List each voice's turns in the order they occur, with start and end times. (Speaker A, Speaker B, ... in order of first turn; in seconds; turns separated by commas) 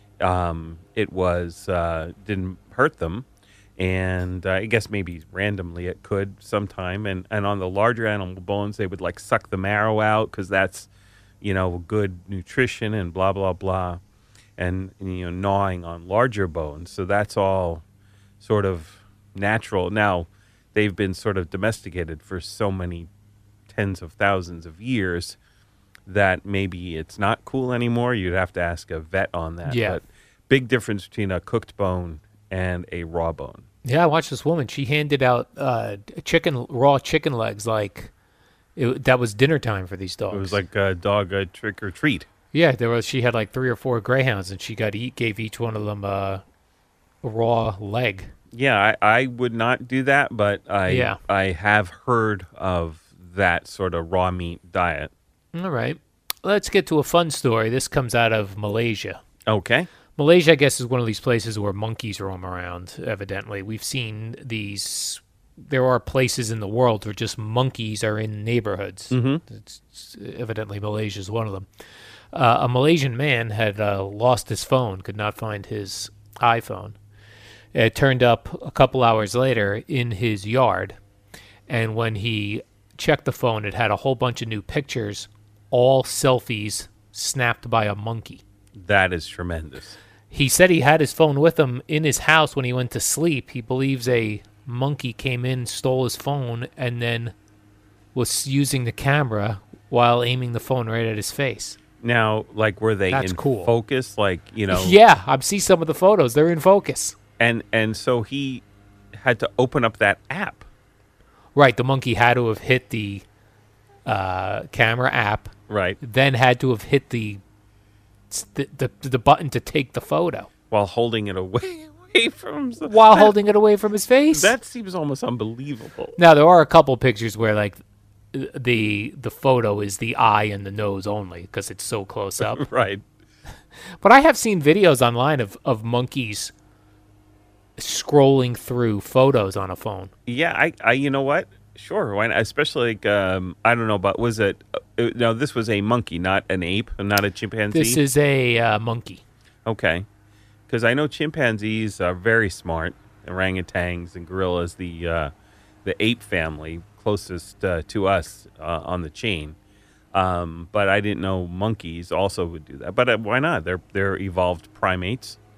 Speaker A: 0.2-3.2, Speaker A: 3.8-10.9, Speaker A: 11.4-14.0, Speaker A: 14.6-17.8, Speaker A: 18.4-23.1, Speaker A: 23.7-25.4, Speaker A: 26.1-33.7, Speaker B: 29.6-30.0, Speaker B: 33.9-38.1, Speaker B: 38.8-40.6, Speaker A: 40.3-42.3, Speaker B: 42.5-46.4, Speaker B: 47.2-48.3, Speaker A: 48.5-55.1, Speaker B: 50.9-51.2, Speaker B: 55.5-59.2, Speaker A: 59.5-59.9, Speaker B: 60.2-71.7, Speaker A: 69.1-69.4, Speaker B: 72.3-77.0, Speaker B: 77.7-81.0, Speaker B: 81.7-88.4, Speaker A: 88.8-90.0, Speaker B: 90.3-97.3, Speaker B: 98.2-101.8, Speaker A: 102.0-105.0, Speaker B: 103.1-103.7, Speaker B: 104.7-107.2, Speaker A: 107.4-108.6, Speaker A: 109.2-110.7, Speaker B: 111.6-113.2, Speaker B: 114.1-117.4, Speaker A: 115.7-116.0, Speaker B: 118.3-120.5, Speaker A: 120.7-123.3, Speaker B: 122.8-124.5, Speaker A: 124.3-126.2, Speaker B: 126.2-127.8, Speaker B: 128.3-132.6, Speaker A: 132.4-133.0, Speaker B: 134.0-136.5, Speaker B: 137.8-140.1, Speaker A: 140.3-148.0, Speaker B: 147.7-149.2, Speaker A: 149.7-150.1, Speaker A: 150.7-155.3, Speaker A: 155.8-159.6, Speaker A: 160.1-165.4